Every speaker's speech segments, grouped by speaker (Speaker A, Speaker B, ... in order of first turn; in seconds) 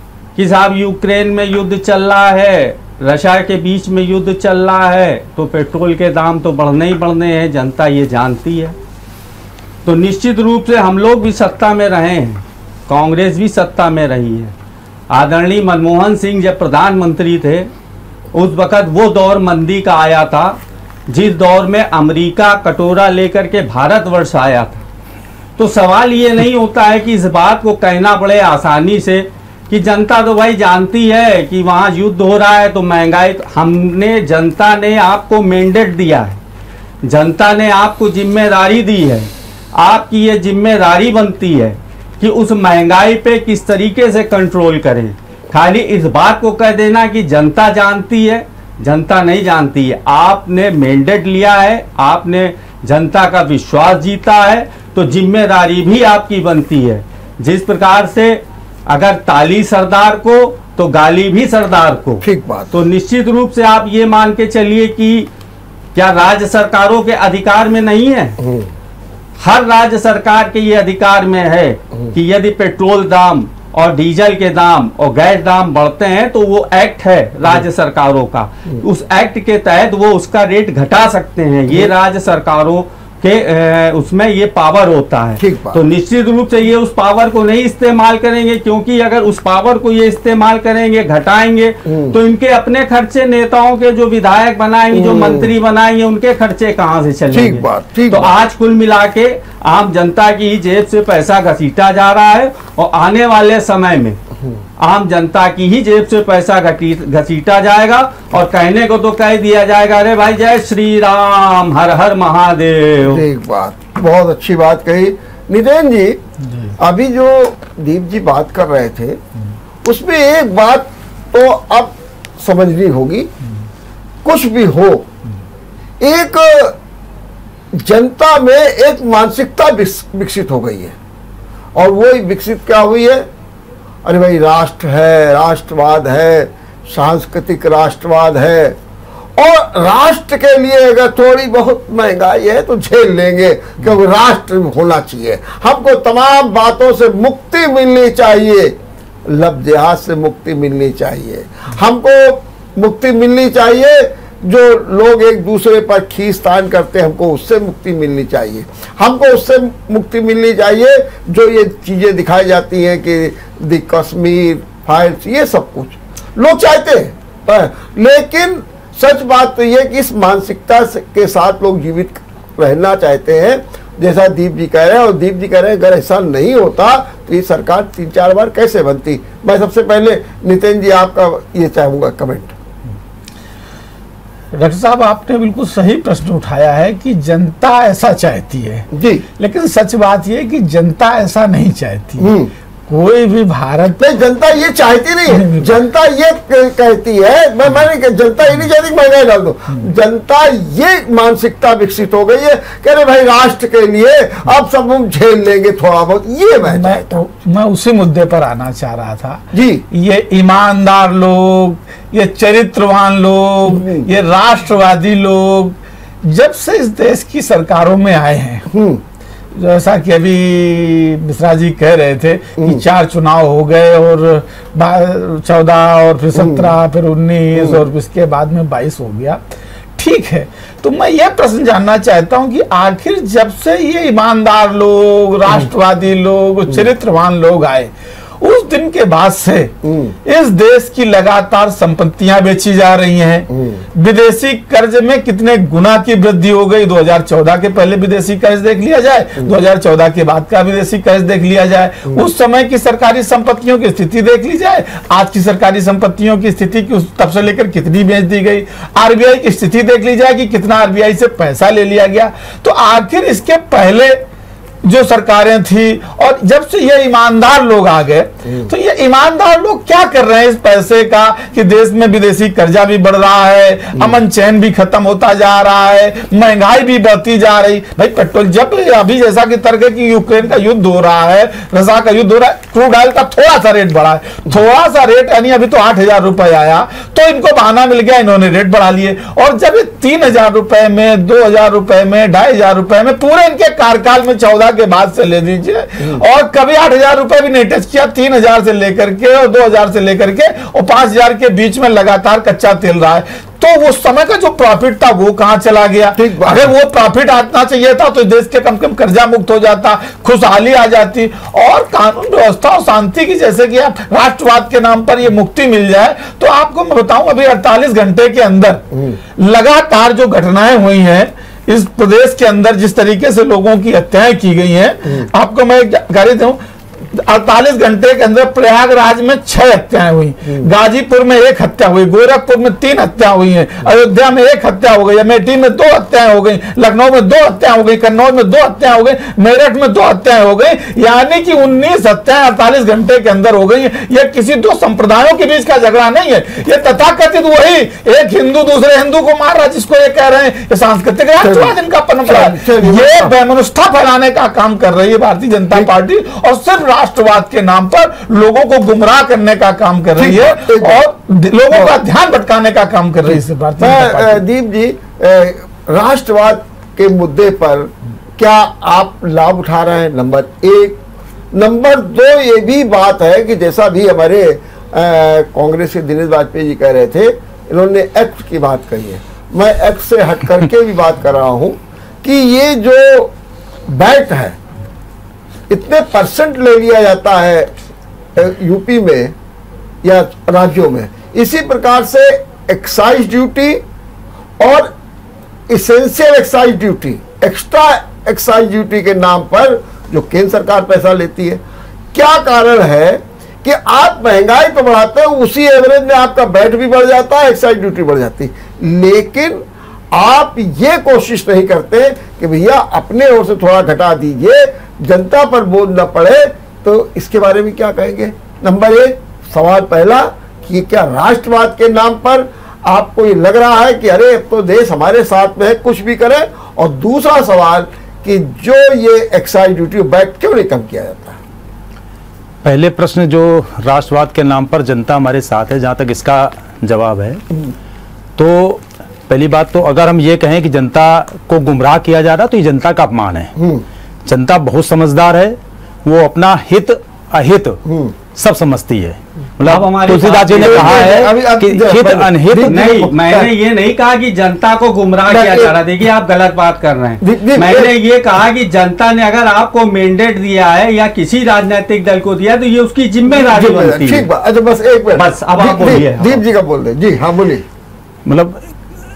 Speaker A: 0.4-8.8, 9.8-14.5, 15.1-17.7, 18.3-20.6, 21.1-24.8, 25.6-36.4, 37.0-65.3, 66.0-68.4, 69.4-104.2, 104.8-113.2, 449.6-451.2, 452.6-464.3, 465.1-466.4
Speaker B: 62.2-62.7, 85.4-85.8, 91.9-92.2, 94.9-95.5, 97.3-98.3, 113.0-116.2, 116.8-119.2, 119.8-123.3, 124.2-125.1, 126.0-126.8, 127.7-131.0, 131.8-133.3, 134.1-138.8, 139.4-182.6, 188.9-189.2, 192.2-192.5, 194.0-207.2, 209.5-209.8, 213.7-214.1, 218.7-219.0, 226.3-226.7, 227.6-227.8, 239.8-240.2, 243.5-243.8, 306.2-306.7, 318.9-319.2, 351.4-353.3, 360.2-361.0, 363.3-371.0, 371.5-383.3, 383.9-384.6, 385.7-387.7, 388.4-389.4, 390.0-393.8, 394.6-394.9, 395.7-401.6, 402.1-431.4, 443.6-443.9, 447.9-448.1, 450.5-453.5, 455.3-455.7, 457.2-457.9, 463.4-467.6
Speaker C: 184.5-192.3, 192.9-194.1, 195.3-195.8, 206.7-218.7, 219.5-229.4, 230.0-264.2, 264.8-326.6, 327.1-364.4
Speaker D: 432.6-437.4, 438.4-443.5, 444.3-447.8, 448.4-453.0, 468.3-468.6